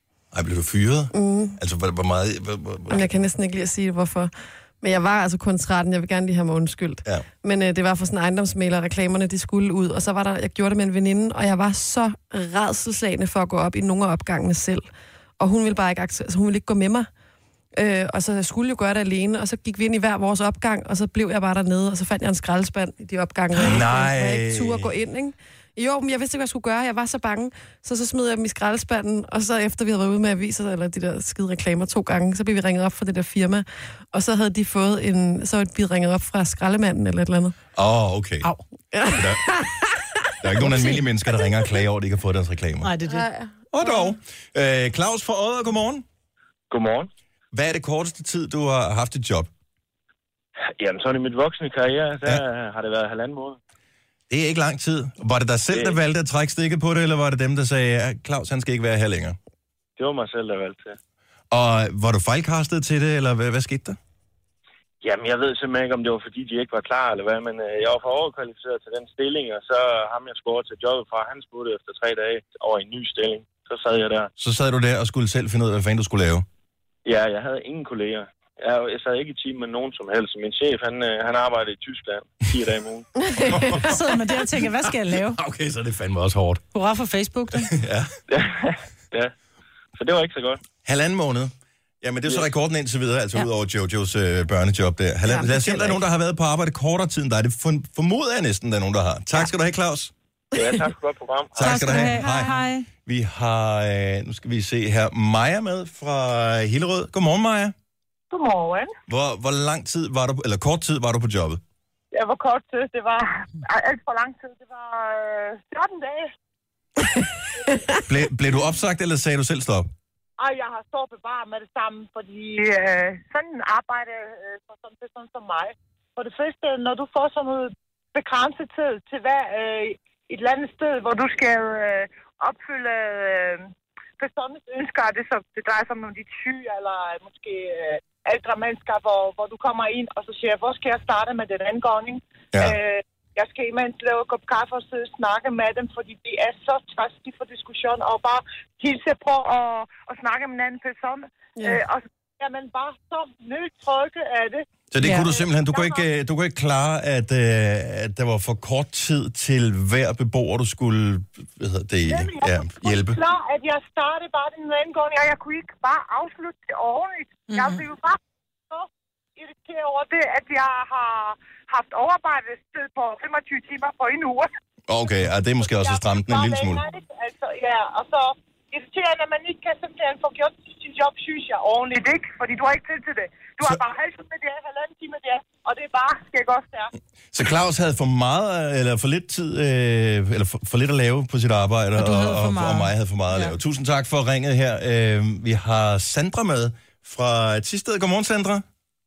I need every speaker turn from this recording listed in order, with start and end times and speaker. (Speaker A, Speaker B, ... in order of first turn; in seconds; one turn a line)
Speaker A: 0.3-3.1
Speaker B: 1.1-1.6
Speaker B: 2.9-4.3
Speaker B: 4.8-14.8
Speaker B: 15.4-17.1
Speaker B: 17.7-37.5
Speaker A: 23.6-24.9
Speaker A: 37.7-38.5
Speaker B: 38.9-39.9
Speaker A: 39.1-39.5
Speaker A: 40.4-42.9
Speaker C: 40.6-41.0
Speaker C: 42.8-43.2
Speaker B: 43.1-44.0
Speaker A: 43.7-46.0
Speaker D: 46.7-47.1
Speaker A: 47.5-49.5
Speaker D: 50.8-53.6
Speaker A: 54.3-59.4
Speaker D: 55.7-56.0
Speaker D: 60.0-61.0
Speaker A: 61.5-64.0
Speaker D: 65.0-74.3
Speaker A: 74.4-76.5
Speaker D: 77.0-83.1
Speaker B: 83.3-83.7
Speaker A: 83.5-83.9
Speaker C: 83.7-85.4
Speaker A: 85.3-86.6
Speaker C: 86.7-87.7
Speaker A: 87.7-88.1
Speaker D: 88.3-89.3
Speaker D: 89.9-90.6
Speaker A: 90.8-100.1
Speaker B: 95.3-96.0
Speaker D: 100.5-102.0
Speaker A: 101.5-107.7
Speaker C: 101.6-102.9
Speaker E: 108.3-108.9
Speaker A: 109.1-111.6
Speaker E: 112.1-116.3
Speaker A: 118.1-119.9
Speaker E: 120.4-156.1
Speaker A: 154.9-163.2
Speaker C: 155.0-155.3
Speaker E: 162.0-174.5
Speaker C: 167.5-167.8
Speaker A: 174.9-176.8
Speaker E: 175.6-186.9
Speaker A: 187.3-198.6
Speaker C: 191.9-193.5